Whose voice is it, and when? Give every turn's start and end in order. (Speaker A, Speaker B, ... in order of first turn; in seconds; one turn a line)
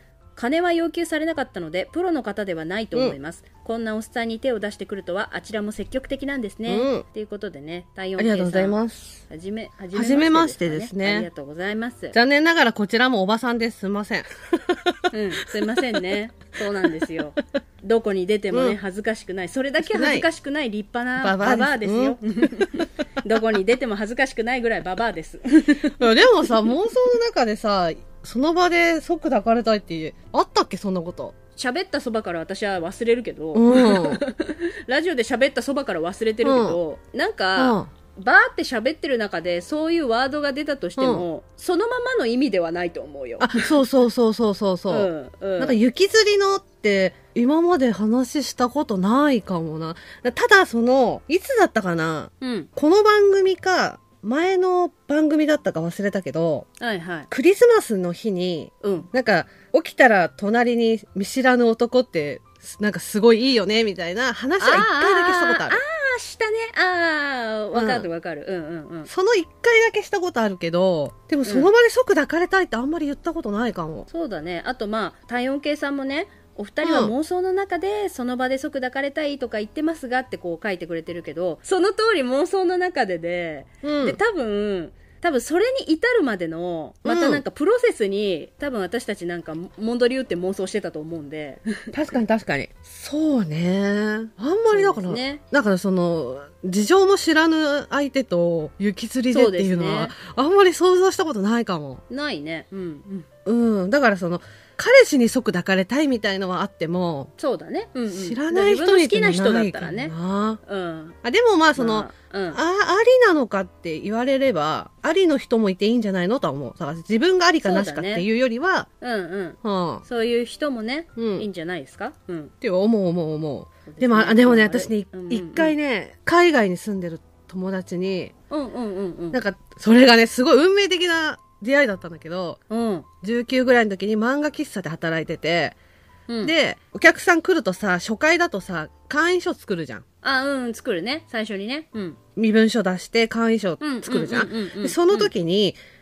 Speaker A: 0.4-8.8
Speaker B: 6.7-7.0
Speaker B: 8.2-9.2
Speaker A: 9.3-12.2
Speaker B: 9.9-11.3
Speaker B: 12.1-15.0
Speaker A: 15.1-26.0
Speaker B: 18.5-18.8
Speaker B: 19.8-20.3
Speaker B: 21.2-22.9
Speaker B: 26.0-31.4
Speaker A: 31.6-43.7
Speaker B: 33.5-34.2
Speaker B: 36.4-36.8
Speaker B: 37.6-37.9
Speaker B: 41.0-41.2
Speaker B: 43.4-56.7
Speaker A: 44.9-45.8
Speaker A: 52.4-52.7
Speaker A: 56.8-57.3
Speaker B: 57.3-65.8
Speaker A: 58.8-59.1
Speaker A: 64.6-69.1
Speaker B: 67.7-68.1
Speaker B: 69.1-74.1
Speaker A: 71.5-71.7
Speaker A: 74.1-92.2
Speaker B: 76.8-77.1
Speaker B: 83.8-84.2
Speaker B: 87.0-87.4
Speaker B: 91.9-102.0
Speaker A: 94.7-95.4
Speaker A: 99.3-100.1
Speaker A: 102.1-103.3
Speaker B: 103.5-107.3
Speaker A: 107.4-110.1
Speaker B: 108.1-110.6
Speaker A: 110.7-111.2
Speaker B: 111.2-118.9
Speaker A: 111.8-112.6
Speaker A: 117.6-118.3
Speaker A: 119.0-122.5
Speaker B: 119.6-120.0
Speaker B: 121.2-121.5
Speaker B: 122.6-128.3
Speaker A: 123.9-125.7
Speaker A: 128.5-129.4
Speaker B: 129.3-132.6
Speaker A: 132.7-133.1
Speaker B: 133.2-135.8
Speaker A: 136.3-136.5
Speaker B: 136.4-140.0
Speaker A: 140.2-142.2
Speaker B: 142.4-145.8
Speaker A: 143.8-145.3